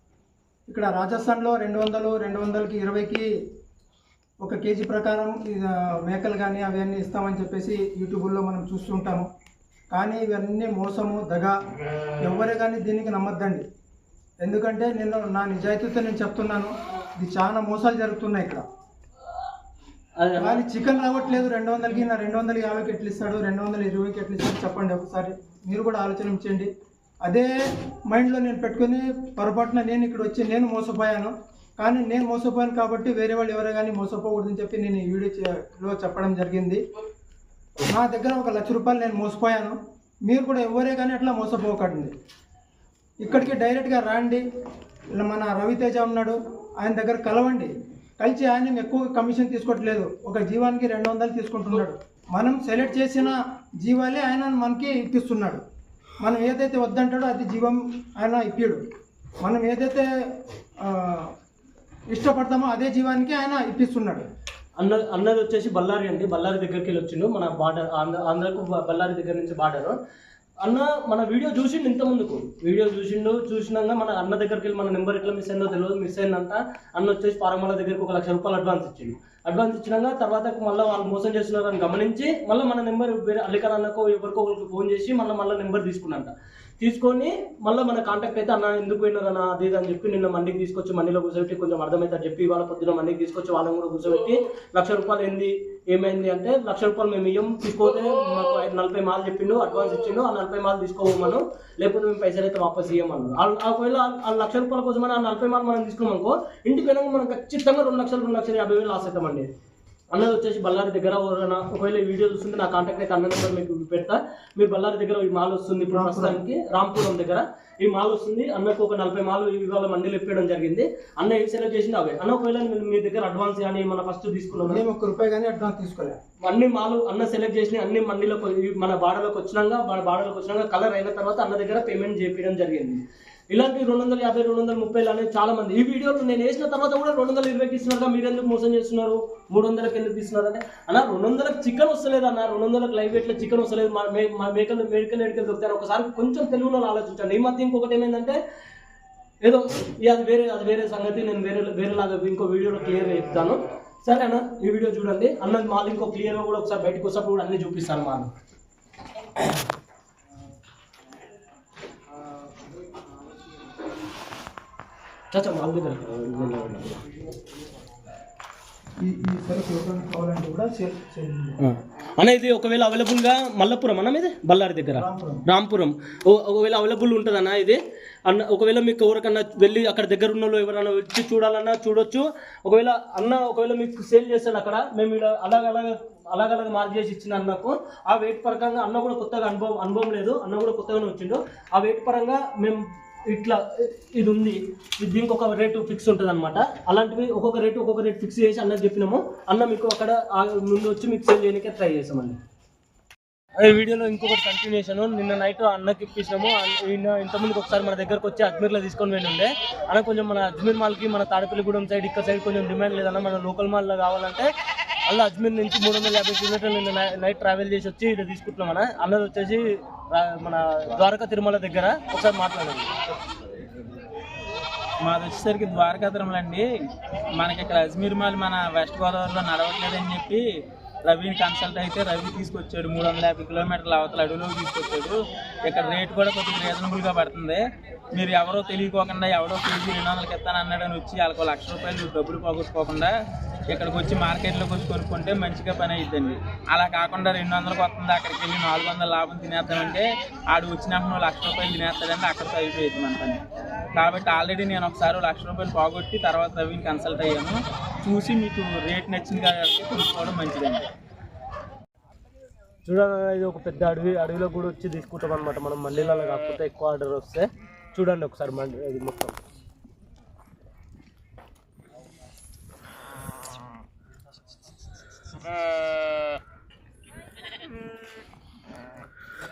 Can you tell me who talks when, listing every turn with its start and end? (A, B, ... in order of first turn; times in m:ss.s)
0:00.7-0:03.3 A
0:04.4-0:09.3 A
0:09.9-0:11.6 A
0:12.2-0:13.6 A
0:14.4-0:18.6 A
0:20.2-0:20.6 B
0:20.4-0:26.7 A
0:27.2-0:27.5 A
0:28.1-0:36.8 A
0:37.9-0:42.1 A
0:43.2-0:44.4 A
0:45.1-0:55.6 A
0:56.2-0:58.8 A
0:59.4-1:00.1 A
1:00.8-1:01.3 A
1:02.1-1:04.2 A
1:04.8-1:10.0 B
1:10.6-1:49.5 B
1:50.1-2:04.8 B
1:55.9-1:56.4 A
2:04.7-2:06.2 A
2:06.4-2:28.4 B
2:29.4-2:38.3 B
2:45.3-2:47.0 B
2:49.0-2:51.6 A
2:51.6-3:22.4 B
2:55.0-2:55.4 A
3:23.6-3:34.5 B
3:35.0-3:42.9 B
3:45.0-3:46.6 C
3:47.4-3:50.4 C
3:51.0-3:57.6 C
3:58.1-4:03.1 C
4:03.7-4:13.4 C
4:13.9-4:20.9 C
4:22.8-4:29.4 B